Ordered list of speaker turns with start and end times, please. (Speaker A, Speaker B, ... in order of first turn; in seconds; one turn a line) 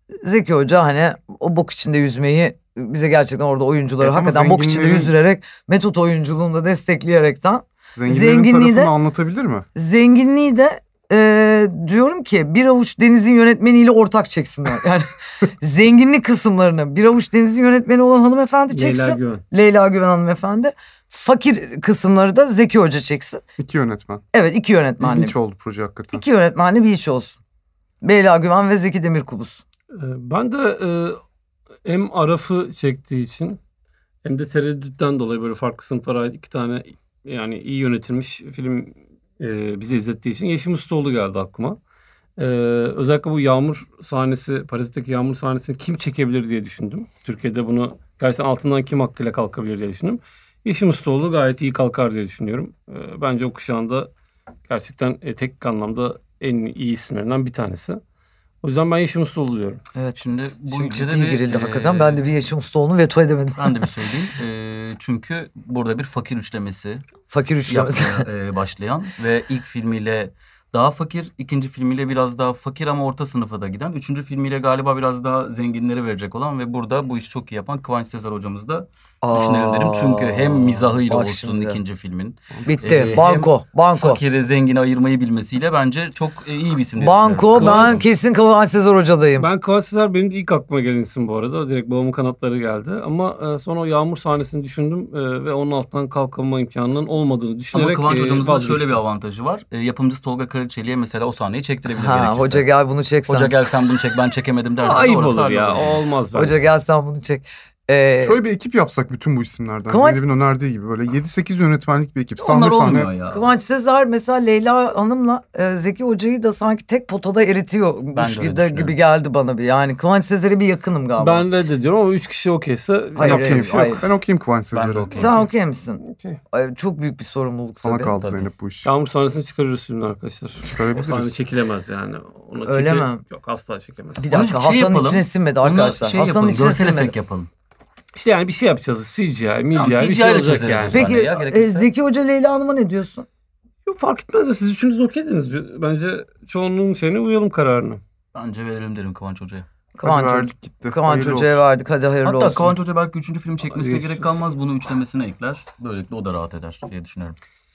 Speaker A: 0.2-8.9
Speaker B: 4.0-5.1
Speaker B: 7.9-9.7
Speaker A: 9.7-23.4
Speaker C: 18.7-19.4
Speaker B: 23.6-24.2
Speaker A: 24.3-25.4
Speaker B: 25.0-26.2
Speaker A: 26.1-27.4
Speaker A: 28.0-29.6
Speaker C: 29.9-31.2
Speaker C: 31.8-33.6
Speaker C: 34.2-41.8
Speaker C: 42.4-54.1
Speaker C: 54.7-58.0
Speaker C: 58.6-59.8
Speaker A: 59.9-63.7
Speaker D: 60.2-62.2
Speaker D: 63.6-67.0
Speaker A: 67.3-68.2
Speaker D: 67.7-88.0
Speaker A: 79.2-81.8
Speaker B: 82.5-83.2
Speaker A: 82.7-84.2
Speaker A: 87.0-89.5
Speaker C: 87.5-88.0
Speaker C: 89.4-99.0
Speaker D: 97.7-102.7
Speaker A: 101.9-103.6
Speaker D: 103.3-106.0
Speaker C: 104.8-106.6
Speaker A: 106.3-108.4
Speaker B: 108.2-113.1
Speaker A: 109.9-110.2
Speaker D: 112.4-113.5
Speaker A: 113.2-121.5
Speaker D: 118.1-119.0
Speaker C: 121.2-124.0
Speaker A: 123.1-124.0
Speaker B: 123.2-125.2
Speaker D: 124.7-125.5
Speaker A: 125.1-128.2
Speaker C: 126.0-126.4
Speaker B: 127.8-128.9
Speaker D: 128.2-128.5
Speaker C: 128.8-134.3
Speaker B: 130.6-131.3
Speaker A: 132.6-133.2
Speaker A: 134.2-137.1
Speaker D: 134.3-137.5
Speaker C: 138.1-141.0
Speaker D: 139.7-141.9
Speaker A: 140.9-143.2
Speaker C: 143.8-148.0
Speaker D: 148.3-149.7
Speaker A: 149.9-152.7
Speaker B: 150.0-151.6
Speaker D: 152.2-157.4
Speaker C: 153.7-154.4